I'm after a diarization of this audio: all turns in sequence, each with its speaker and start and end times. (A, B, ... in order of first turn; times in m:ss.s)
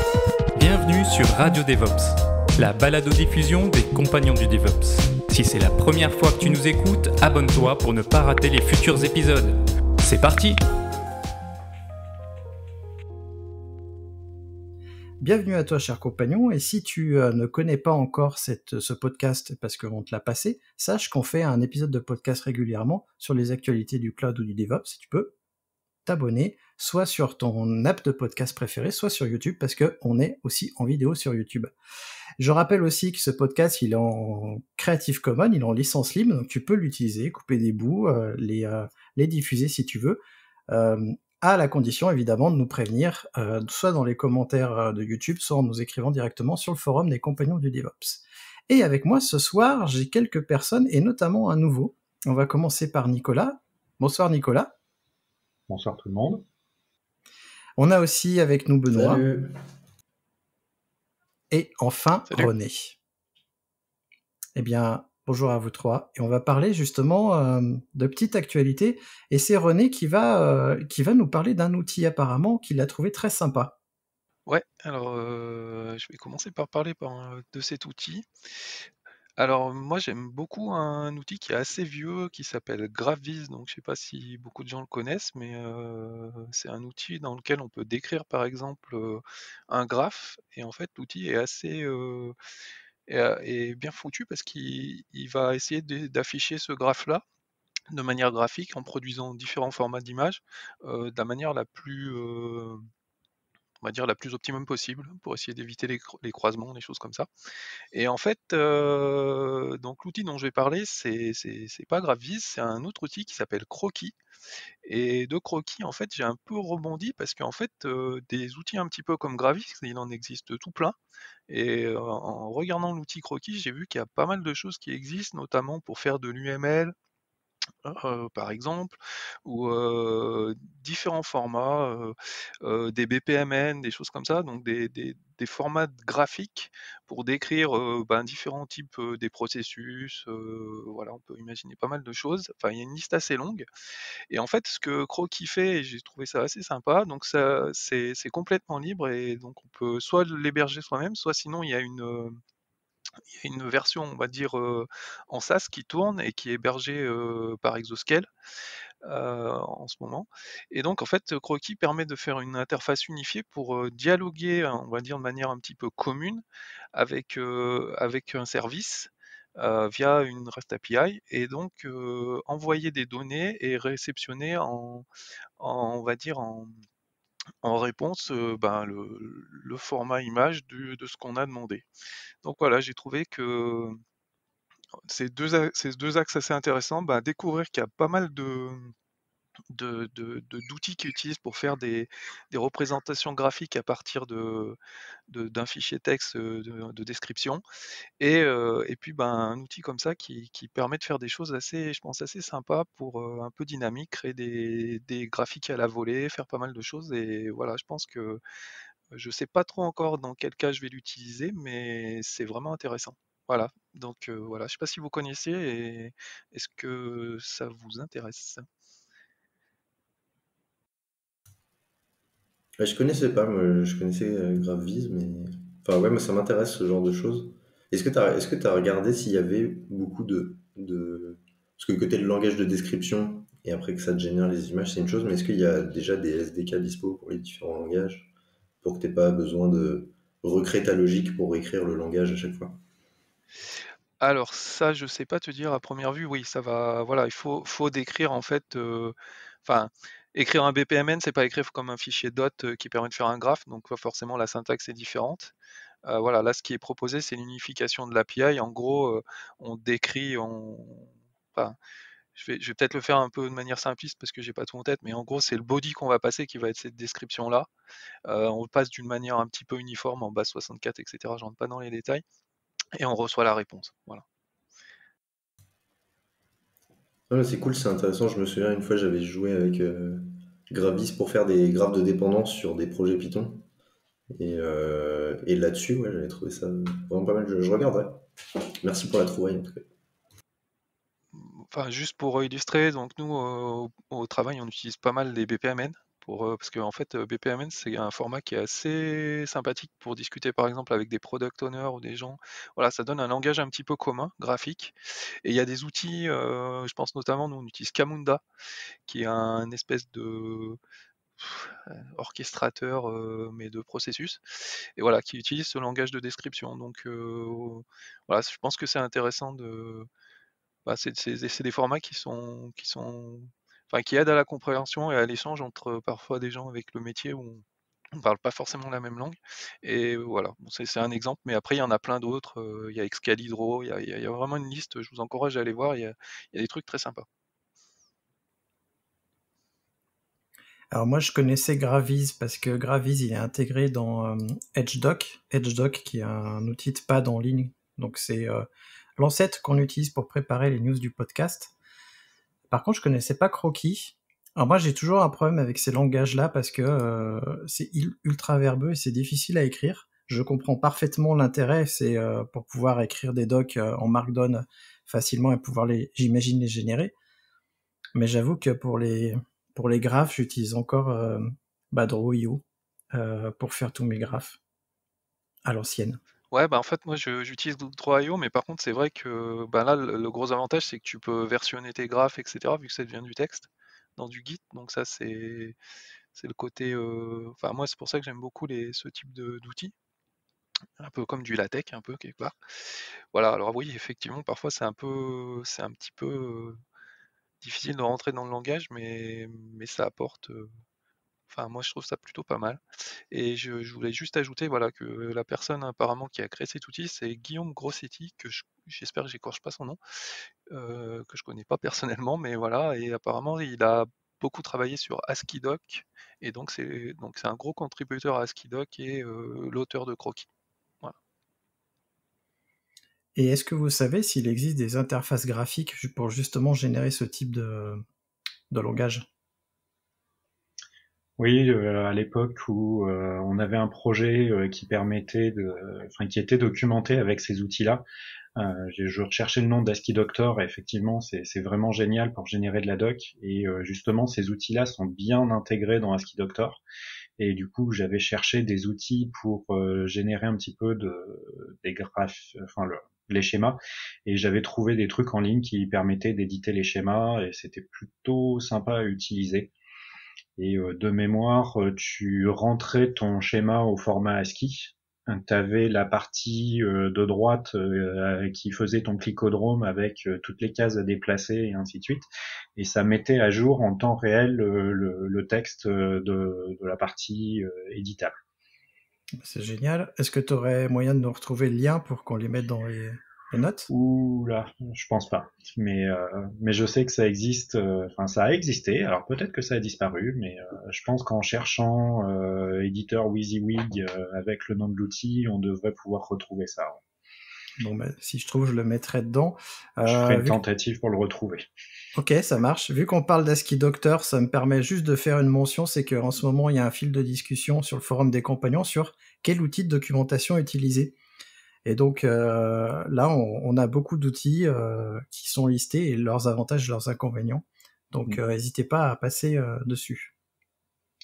0:00.6-0:10.6 A
0:15.2-0:25.3 B
0:26.0-0:31.7 B
0:32.4-0:54.7 B
0:55.7-0:56.4 C
0:57.8-0:59.2 B
0:58.9-0:59.5 D
1:01.5-1:03.0 B
1:04.6-1:13.8 B
1:14.5-1:18.3 E
1:19.4-1:32.3 E
1:33.1-1:37.2 E
1:37.9-1:42.8 E
1:43.8-1:47.3 E
1:47.9-1:54.2 E
1:54.8-2:01.0 E
2:01.5-2:06.9 E
2:07.8-2:23.7 E
2:24.3-2:32.4 E
2:33.3-2:38.3 E
2:39.0-2:46.4 E
2:46.9-2:55.1 E
2:55.6-2:56.8 E
2:57.6-3:01.9 E
3:02.4-3:04.0 E
3:05.1-3:08.9 E
3:09.7-3:14.8 E
3:15.3-3:17.6 E
3:18.2-3:28.4 E
3:29.1-3:38.7 E
3:42.8-4:02.8 D
4:04.2-4:15.5 E
4:16.0-4:21.8 E
4:22.4-4:27.7 E
4:28.2-4:32.2 E
4:32.9-4:34.2 E
4:37.3-4:43.6 D
4:44.3-4:48.3 D
4:48.8-4:49.9 D
4:51.3-5:08.4 E
5:09.1-5:10.8 E
5:11.4-5:20.1 E
5:20.9-5:27.6 E
5:28.2-5:37.2 E
5:40.9-5:48.7 B
5:49.2-5:51.7 B
5:52.7-6:07.1 B
6:08.1-6:14.6 B
6:15.7-6:16.2 B
6:16.5-6:25.8 E
6:26.4-6:29.9 E
6:31.0-6:32.6 E
6:33.3-6:36.8 E
6:37.6-6:40.7 E
6:41.5-6:50.0 E
6:50.7-7:00.5 E
7:03.4-7:08.0 B
7:08.7-7:09.2 B
7:11.4-7:18.0 C
7:18.6-7:26.8 C
7:27.4-7:39.7 C
7:40.6-7:52.2 C
7:52.8-7:58.4 C
7:59.4-8:03.9 B
8:03.9-8:17.0 C
8:17.8-8:20.6 B
8:20.0-8:21.7 C
8:22.1-8:31.1 B
8:31.8-8:40.3 B